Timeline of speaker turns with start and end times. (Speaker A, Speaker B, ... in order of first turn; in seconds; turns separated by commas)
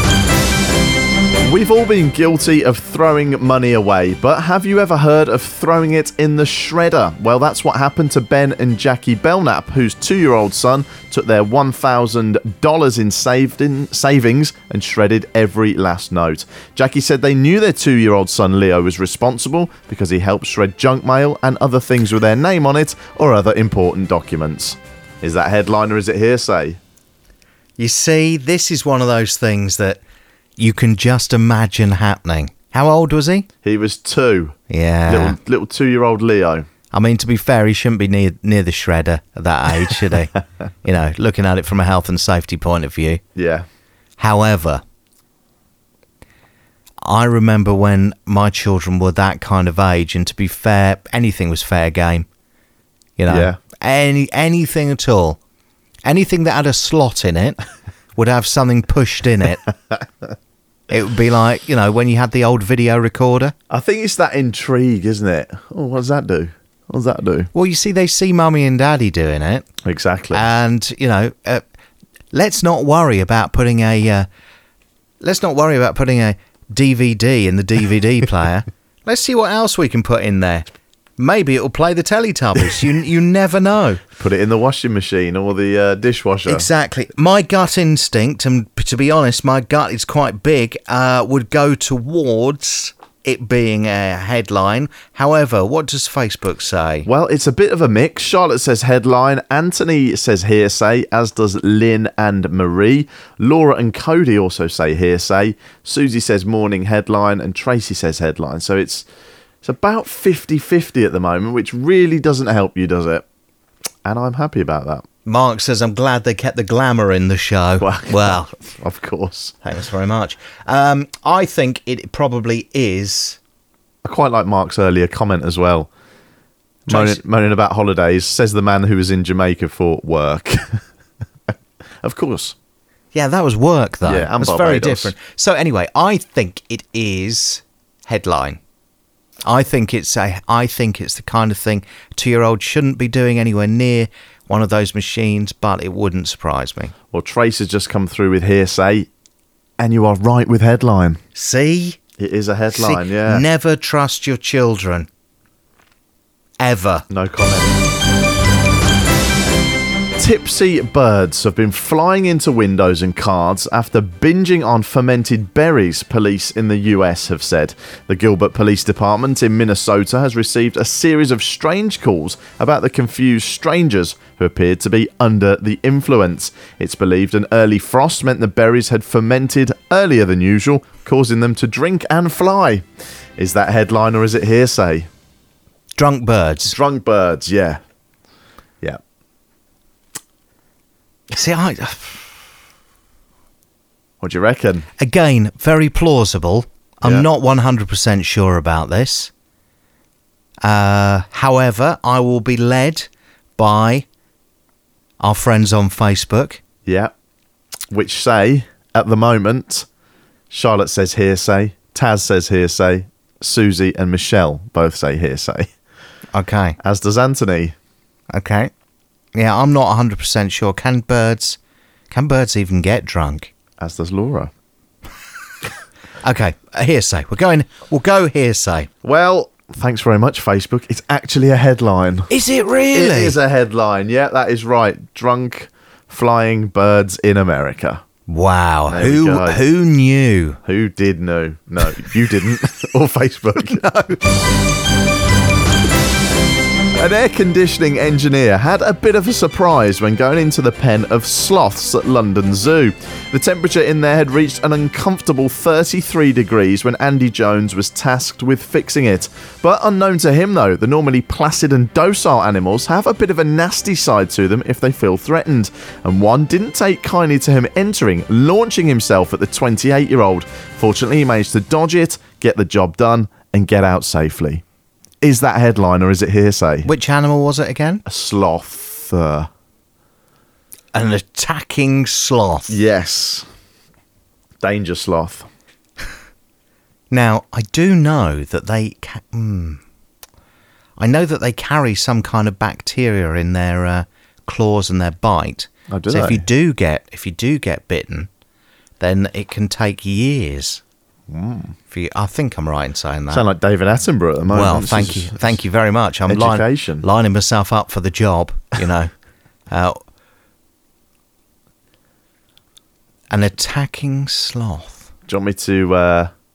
Speaker A: 1.4-26.8, Speaker B: 27.8-30.0, Speaker B: 30.6-33.5, Speaker A: 33.6-36.7, Speaker B: 34.7-35.4, Speaker B: 36.9-40.3, Speaker B: 40.8-43.2, Speaker A: 43.4-43.7, Speaker B: 44.2-44.8, Speaker B: 47.0-52.3, Speaker B: 53.2-55.4, Speaker A: 53.3-53.6, Speaker B: 56.0-57.6, Speaker B: 58.2-59.7, Speaker B: 60.9-63.5, Speaker A: 63.7-67.5, Speaker B: 67.5-69.7, Speaker A: 69.8-70.5, Speaker B: 70.3-71.6, Speaker B: 72.3-74.3, Speaker B: 75.2-84.0, Speaker A: 84.1-86.7, Speaker B: 86.5-97.1, Speaker A: 97.1-109.1, Speaker A: 109.6-113.2, Speaker A: 114.0-115.0, Speaker B: 115.3-118.5, Speaker A: 117.8-119.6, Speaker B: 119.7-123.4, Speaker A: 124.0-125.9, Speaker A: 126.9-130.8, Speaker B: 126.9-127.2, Speaker A: 132.0-132.6, Speaker B: 133.1-138.6, Speaker A: 134.1-135.1, Speaker B: 139.4-146.9, Speaker A: 147.1-149.1, Speaker A: 149.8-151.2, Speaker B: 151.3-152.0, Speaker A: 152.2-153.4, Speaker B: 152.7-155.1, Speaker B: 156.6-157.1, Speaker A: 157.1-157.8, Speaker A: 160.2-182.9, Speaker A: 183.4-185.1, Speaker B: 186.0-186.8, Speaker A: 186.7-187.8, Speaker B: 191.3-192.4, Speaker A: 194.2-194.9, Speaker B: 195.0-199.3, Speaker B: 200.6-204.1, Speaker B: 205.2-206.6, Speaker A: 206.9-207.1, Speaker A: 207.9-209.9, Speaker A: 210.5-215.7, Speaker B: 216.3-216.8, Speaker A: 216.8-217.8, Speaker B: 218.3-218.7, Speaker B: 219.3-221.6, Speaker B: 222.1-223.5, Speaker A: 223.8-224.5, Speaker B: 226.2-228.9, Speaker A: 229.0-232.3, Speaker B: 232.3-233.4, Speaker A: 232.9-238.0, Speaker B: 238.3-240.6, Speaker A: 238.9-239.6, Speaker A: 240.6-243.9, Speaker B: 243.6-244.2, Speaker A: 246.9-274.6, Speaker A: 275.2-276.9, Speaker B: 276.9-278.0, Speaker A: 278.1-279.5, Speaker B: 280.9-282.8, Speaker A: 282.7-283.5, Speaker A: 284.6-285.5, Speaker B: 287.1-289.8, Speaker B: 291.0-298.3, Speaker A: 295.9-296.4, Speaker B: 299.0-300.8, Speaker A: 301.3-301.7, Speaker B: 301.9-303.4, Speaker A: 303.3-305.5, Speaker B: 304.5-309.1, Speaker A: 306.3-307.1, Speaker B: 309.7-310.0, Speaker B: 313.3-315.1, Speaker A: 315.3-316.3